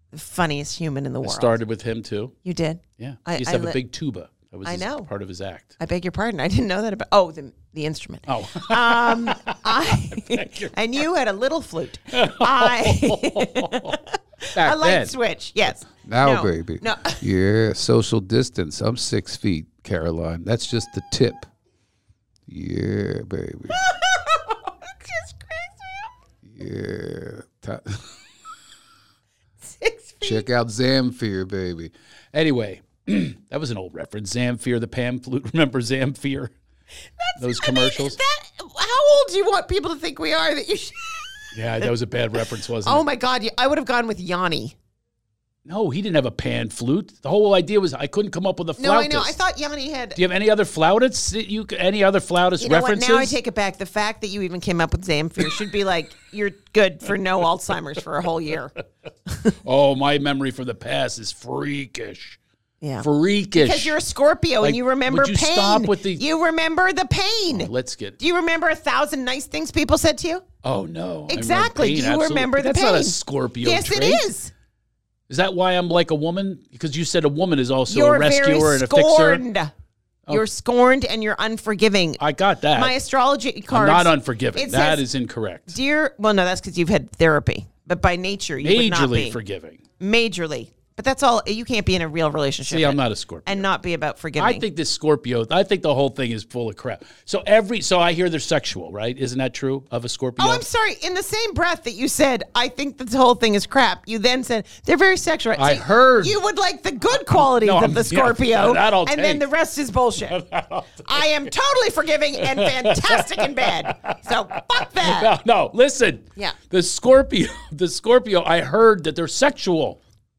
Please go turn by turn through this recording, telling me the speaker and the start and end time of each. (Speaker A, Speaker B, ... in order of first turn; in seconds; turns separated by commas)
Speaker A: 0.1-1.6, Speaker B: 1.2-2.3, Speaker A: 2.4-3.8, Speaker B: 3.0-5.7, Speaker A: 4.6-5.1, Speaker A: 5.8-17.2, Speaker B: 8.3-10.8, Speaker B: 12.1-14.0, Speaker B: 14.5-15.1, Speaker C: 16.0-19.9, Speaker B: 19.9-21.0, Speaker C: 20.8-21.4, Speaker C: 22.5-23.9, Speaker A: 23.8-26.0, Speaker C: 26.4-28.0, Speaker A: 29.6-30.5, Speaker C: 30.2-31.9, Speaker B: 32.3-36.5, Speaker A: 37.2-41.9, Speaker B: 37.4-38.2, Speaker B: 41.5-43.0, Speaker A: 42.8-44.8, Speaker B: 45.6-49.3, Speaker A: 48.8-50.2, Speaker B: 50.1-53.4, Speaker A: 52.6-58.8, Speaker A: 59.3-59.5, Speaker B: 59.6-62.4, Speaker A: 62.8-70.4, Speaker B: 63.0-64.0, Speaker B: 64.6-66.2, Speaker B: 67.5-68.2, Speaker B: 70.6-74.3, Speaker A: 71.3-74.5, Speaker B: 75.3-79.4, Speaker A: 77.9-79.7, Speaker A: 80.3-82.2, Speaker B: 82.2-82.9, Speaker A: 82.7-85.0, Speaker B: 83.7-85.8, Speaker A: 85.7-89.4, Speaker B: 88.6-89.8, Speaker A: 90.0-94.6, Speaker B: 92.7-93.7, Speaker B: 94.3-100.7, Speaker A: 100.4-110.4, Speaker B: 105.5-106.4, Speaker B: 107.1-109.4, Speaker B: 110.2-111.5, Speaker A: 111.0-115.3, Speaker B: 112.3-120.0